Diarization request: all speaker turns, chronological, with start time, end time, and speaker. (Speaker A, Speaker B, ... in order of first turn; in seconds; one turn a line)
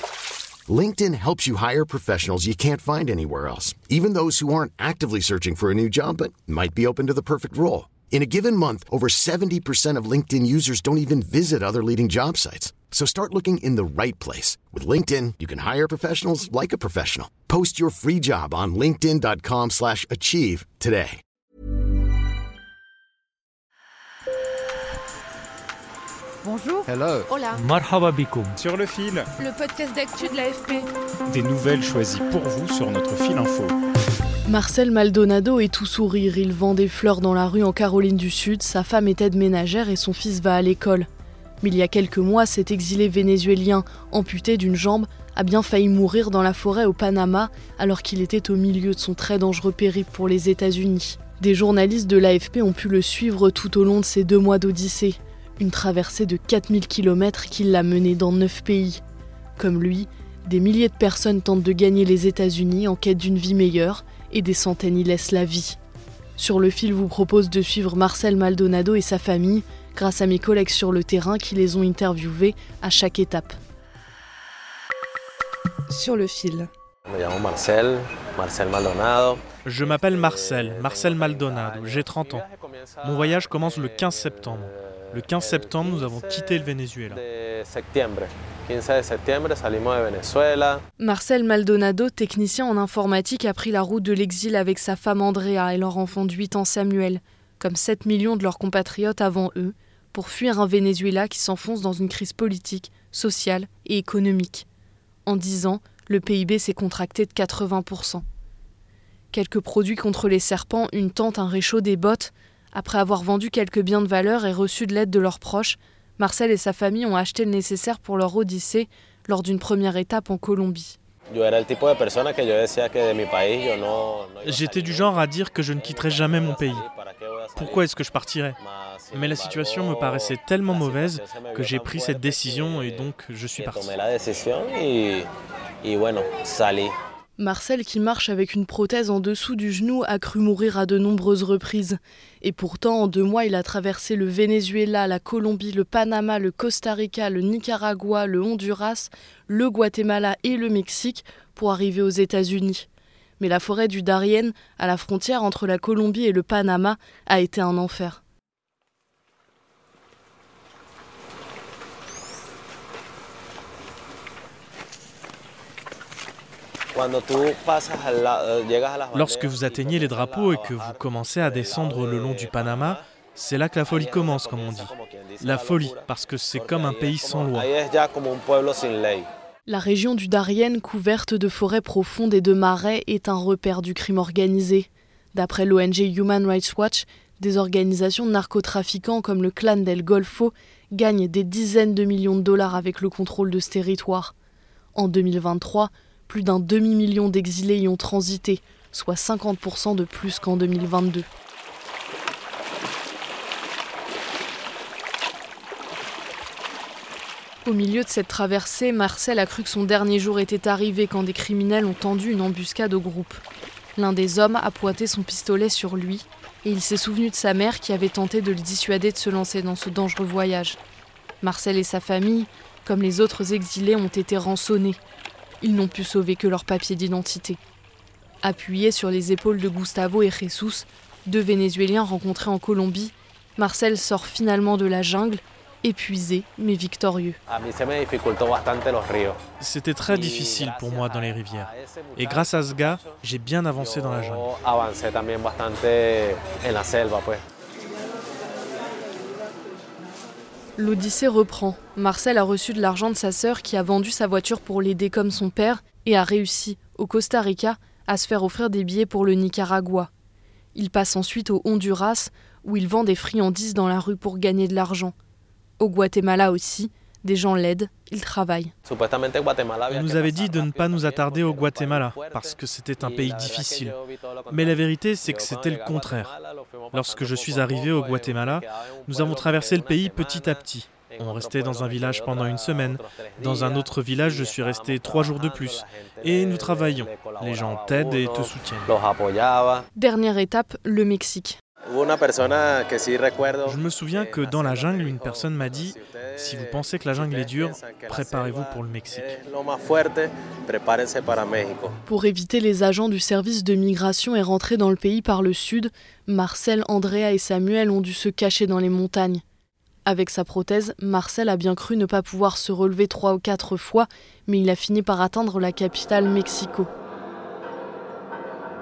Speaker A: 0.7-21.2
Speaker B: 26.4-27.6
Speaker C: 26.9-29.3
Speaker B: 29.4-30.9
Speaker C: 31.3-33.7
Speaker D: 34.5-41.1
Speaker D: 41.6-59.0
Speaker D: 59.6-65.8
Speaker D: 66.4-73.6
Speaker B: 75.9-76.7
Speaker E: 77.1-90.8
Speaker F: 79.6-82.4
Speaker F: 83.0-87.2
Speaker D: 91.0-104.7
Speaker D: 105.2-108.2
Speaker D: 109.3-121.0
Speaker E: 121.3-127.8
Speaker F: 124.4-126.8
Speaker F: 127.6-128.6
Speaker E: 128.6-135.3
Speaker F: 129.1-133.9
Speaker E: 135.8-136.9
Speaker D: 137.4-152.9
Speaker D: 153.4-158.2
Speaker E: 166.9-173.0
Speaker F: 169.1-177.7
Speaker E: 173.9-179.3
Speaker D: 179.7-194.3
Speaker D: 194.9-201.3
Speaker D: 207.6-213.4
Speaker D: 213.9-220.8
Speaker D: 221.4-225.0
Speaker D: 225.6-227.6
Speaker D: 228.4-237.4
Speaker E: 237.5-239.4
Speaker F: 239.6-244.5
Speaker E: 240.1-243.2
Speaker E: 243.7-247.4
Speaker D: 250.8-260.1
Speaker D: 260.7-265.1
Speaker D: 265.8-268.7
Speaker E: 268.9-289.9
Speaker F: 269.9-273.9
Speaker F: 274.5-276.3
Speaker F: 276.9-288.9
Speaker D: 289.9-291.6
Speaker E: 291.9-301.9
Speaker F: 293.6-299.3
Speaker D: 302.1-309.4
Speaker D: 310.1-316.9